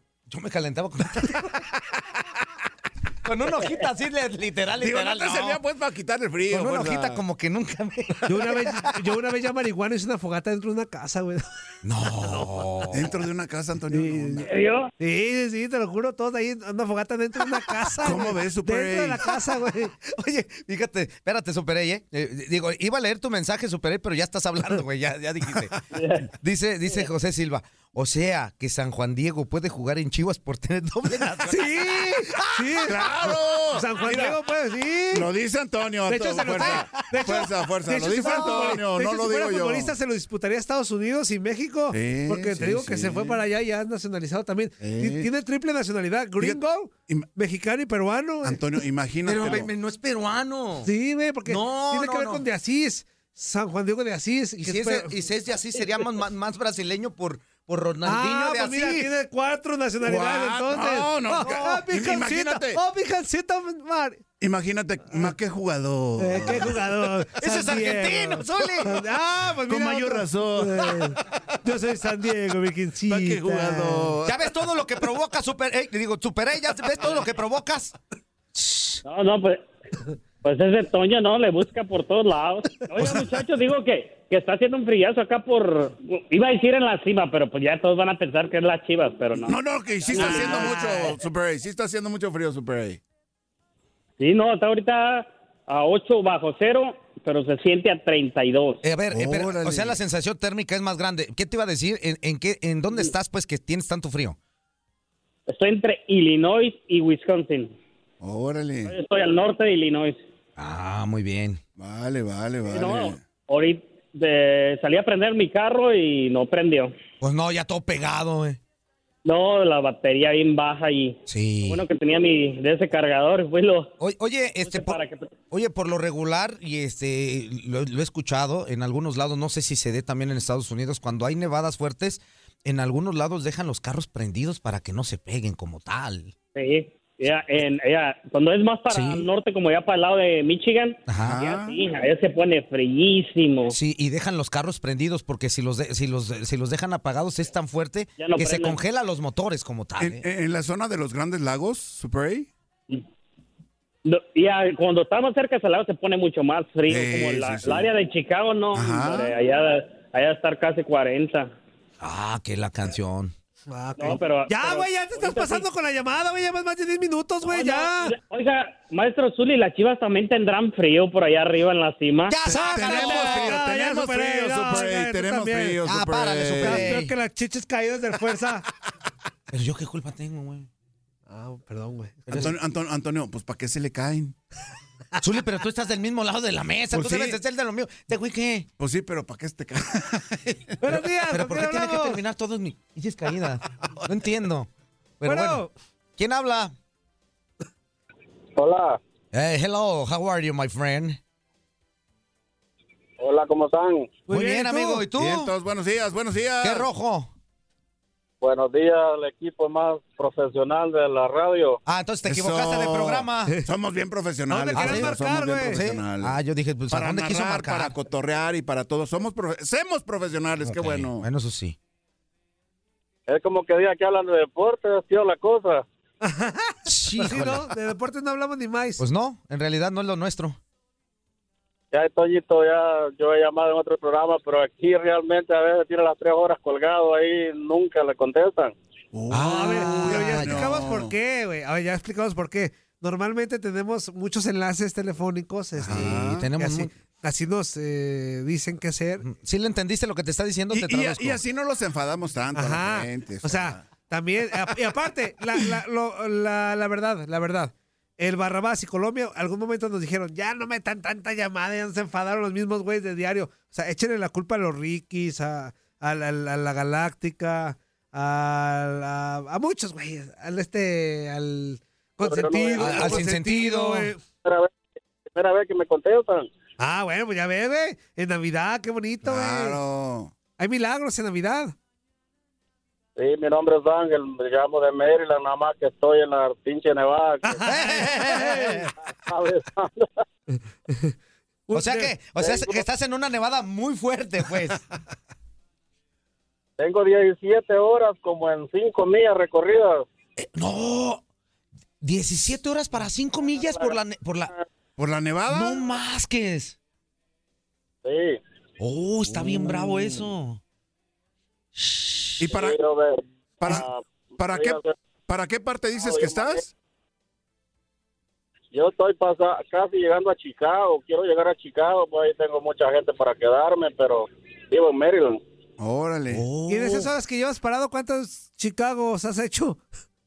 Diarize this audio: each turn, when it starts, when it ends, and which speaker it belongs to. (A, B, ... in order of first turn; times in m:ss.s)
0:00.3-0:01.6 A
0:03.2-0:05.6 A
0:04.8-0:07.2 B
0:06.5-0:08.9 A
0:08.2-0:11.4 C
0:11.8-0:13.2 A
0:12.2-0:12.6 C
0:12.9-0:14.5 B
0:13.9-0:14.4 C
0:14.4-0:14.9 D
0:15.0-0:19.9 C
0:18.0-0:19.3 B
0:20.0-0:25.7 A
0:25.9-0:26.3 D
0:26.3-0:32.9 A
0:31.4-0:35.3 C
0:32.8-0:34.4 B
0:35.1-0:39.9 B
0:36.0-0:48.8 C
0:36.5-0:37.4 A
0:38.2-0:38.8 A
0:41.9-0:43.4 B
0:44.8-0:45.3 B
0:46.4-0:47.3 B
0:48.4-0:49.7 B
0:49.2-0:50.9 A
0:50.8-0:55.2 C
0:51.4-0:52.4 A
0:54.6-0:59.1 A
0:58.0-1:04.2 C
1:00.0-1:02.8 B
1:04.4-1:06.8 B
1:06.2-1:14.2 C
1:07.4-1:09.1 A
1:09.6-1:11.1 B
1:13.0-1:14.4 B
1:14.2-1:18.0 A
1:18.5-1:19.0 A
1:19.0-1:19.6 D
1:20.4-1:29.6 D
1:29.3-1:33.0 B
1:30.1-1:31.0 D
1:30.2-1:30.5 A
1:34.2-1:38.8 D
1:38.8-1:44.4 A
1:39.1-1:40.0 B
1:45.5-1:47.7 D
1:48.2-1:48.9 B
1:48.9-1:50.2 D
1:50.6-1:51.6 A
1:51.8-1:53.2 B
1:52.7-1:56.9 D
1:57.2-1:58.6 A
1:59.2-2:03.9 D
2:01.3-2:01.8 A
2:04.0-2:05.0 A
2:04.6-2:05.3 D
2:05.5-2:16.3 A
2:16.5-2:23.8 D
2:18.9-2:19.3 A
2:21.1-2:21.4 A
2:21.1-2:21.8 B
2:23.7-2:30.2 A
2:28.2-2:28.8 D
2:30.0-2:32.5 B
2:34.0-2:41.5 D
2:36.9-2:37.9 B
2:38.7-2:39.3 B
2:42.0-2:43.3 A
2:43.7-2:48.1 C
2:44.0-2:45.6 D
2:47.4-2:52.4 D
2:52.3-2:53.6 A
2:52.4-2:56.9 B
2:52.5-2:55.8 C
2:55.8-2:57.1 A
2:56.6-2:58.6 C
2:59.5-3:00.7 A
3:01.3-3:02.5 C
3:02.3-3:02.5 A
3:02.3-3:04.4 B
3:05.2-3:08.7 A
3:06.9-3:07.4 B
3:08.8-3:10.8 B
3:10.8-3:12.2 C
3:10.9-3:14.7 A
3:15.2-3:15.6 A
3:15.2-3:15.7 C
3:16.2-3:16.7 A
3:18.6-3:19.0 E
3:19.3-3:21.2 A
3:23.2-3:24.2 E
3:24.3-3:25.1 C
3:24.3-3:25.5 A
3:25.1-3:26.9 B
3:26.6-3:27.3 A
3:28.4-3:31.8 E
3:31.8-3:33.5 A
3:32.2-3:36.4 B
3:34.5-3:35.8 C
3:34.7-3:35.2 A
3:35.7-3:37.9 A
3:36.9-3:41.2 B
3:40.6-3:41.8 A
3:43.3-3:45.8 E
3:46.2-3:49.0 C
3:46.8-3:47.7 A
3:49.0-3:50.6 A
3:51.9-3:58.7 E
3:59.1-4:01.1 B
3:59.3-4:00.8 A
3:59.4-4:09.2 C
4:05.8-4:06.5 B
4:05.9-4:06.9 A
4:09.2-4:11.4 A
4:10.7-4:13.9 B
4:12.5-4:34.2 C
4:32.2-4:33.2 E
4:32.8-4:34.1 A
4:34.4-4:34.7 E
4:35.2-4:36.5 E
4:36.8-4:39.8 C
4:39.2-4:40.3 B
4:40.6-4:41.7 C
4:43.2-4:47.6 E
4:47.5-4:48.9 C
4:47.6-4:48.9 A
4:49.3-4:50.0 E
4:50.5-4:51.1 C
4:51.7-4:52.2 C
4:51.7-4:54.8 A
4:52.4-4:52.8 E
4:56.8-5:00.0 E
5:00.4-5:01.2 A
5:02.0-5:04.5 A
5:03.4-5:04.0 E
5:05.0-5:05.8 B
5:05.5-5:06.8 A
5:08.0-5:08.4 E
5:08.8-5:10.6 A
5:11.7-5:12.5 A
5:12.4-5:12.7 B
5:12.5-5:15.0 E
5:14.4-5:16.7 B
5:16.0-5:16.6 E
5:18.7-5:25.4 E
5:25.8-5:26.5 B
5:26.3-5:27.1 A
5:26.6-5:29.8 C